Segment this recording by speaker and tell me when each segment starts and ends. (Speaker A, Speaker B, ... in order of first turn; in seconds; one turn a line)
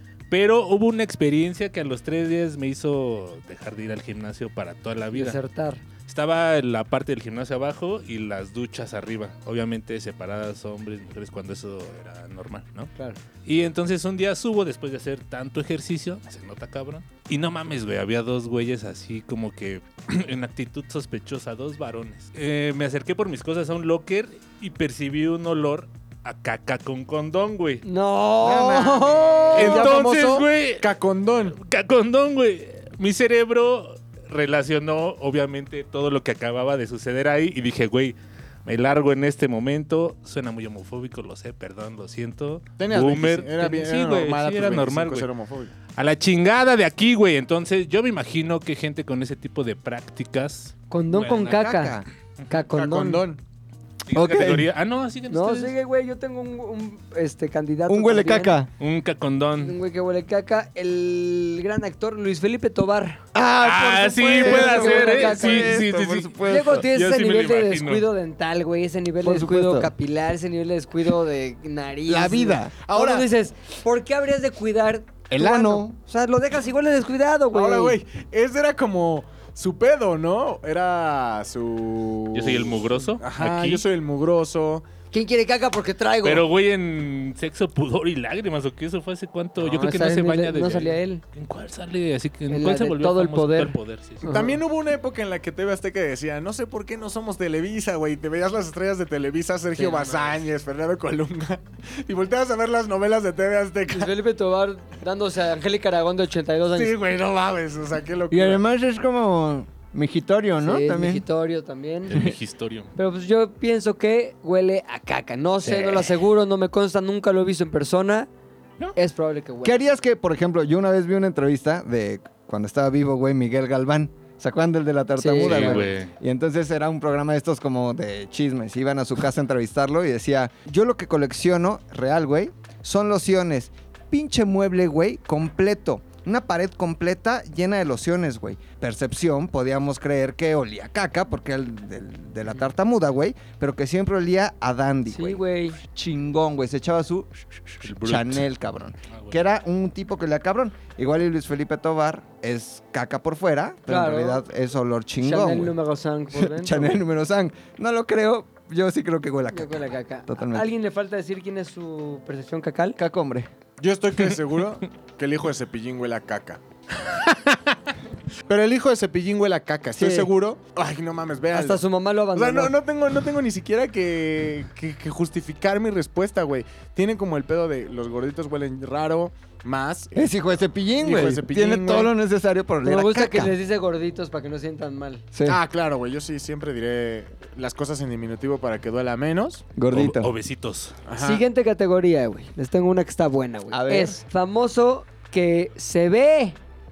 Speaker A: 0.3-5.4
Speaker B: 5.1-5.8
Speaker A: 6.1-12.9
Speaker B: 13.0-13.2
Speaker A: 13.4-27.8
Speaker B: 27.8-29.9
Speaker C: 28.4-29.8
Speaker D: 29.5-31.6
Speaker A: 29.5-30.9
Speaker A: 31.5-45.3
Speaker D: 42.8-45.7
Speaker A: 45.9-51.6
Speaker B: 50.9-53.2
Speaker C: 51.5-52.1
Speaker D: 52.7-53.4
Speaker A: 54.1-55.7
Speaker C: 54.1-54.7
Speaker B: 55.3-58.6
Speaker C: 57.9-58.7
Speaker A: 58.8-59.8
Speaker B: 59.6-63.2
Speaker C: 63.3-66.9
Speaker A: 63.6-68.1
Speaker B: 64.3-65.8
Speaker B: 66.4-78.0
Speaker C: 69.2-69.9
Speaker C: 72.1-72.9
Speaker D: 72.9-73.3
Speaker C: 75.3-76.0
Speaker D: 77.5-84.8
Speaker A: 82.3-83.8
Speaker B: 85.1-86.5
Speaker A: 86.2-94.3
Speaker B: 89.6-91.2
Speaker B: 92.5-94.6
Speaker D: 94.2-104.1
Speaker B: 99.8-100.4
Speaker B: 103.9-106.9
Speaker D: 106.7-108.6
Speaker C: 108.3-111.2
Speaker B: 110.6-112.2
Speaker A: 112.1-112.9
Speaker C: 112.1-112.4
Speaker B: 112.9-118.3
Speaker A: 115.6-116.1
Speaker B: 118.9-119.9
Speaker C: 119.6-155.7
Speaker B: 125.2-125.9
Speaker A: 125.4-126.1
Speaker B: 145.1-145.8
Speaker A: 147.8-148.4
Speaker B: 153.9-154.4
Speaker B: 155.2-157.0
Speaker C: 156.3-160.7
Speaker B: 159.5-163.0
Speaker C: 163.0-163.5
Speaker D: 163.8-166.6
Speaker D: 168.4-171.8
Speaker C: 169.9-170.3
Speaker B: 171.5-172.7
Speaker D: 172.3-180.3
Speaker C: 180.1-183.6
Speaker D: 181.0-182.1
Speaker B: 182.8-185.2
Speaker C: 185.3-185.6
Speaker D: 185.4-189.7
Speaker C: 189.8-190.3
Speaker A: 189.9-190.9
Speaker D: 191.1-191.4
Speaker B: 191.2-196.6
Speaker C: 193.7-194.2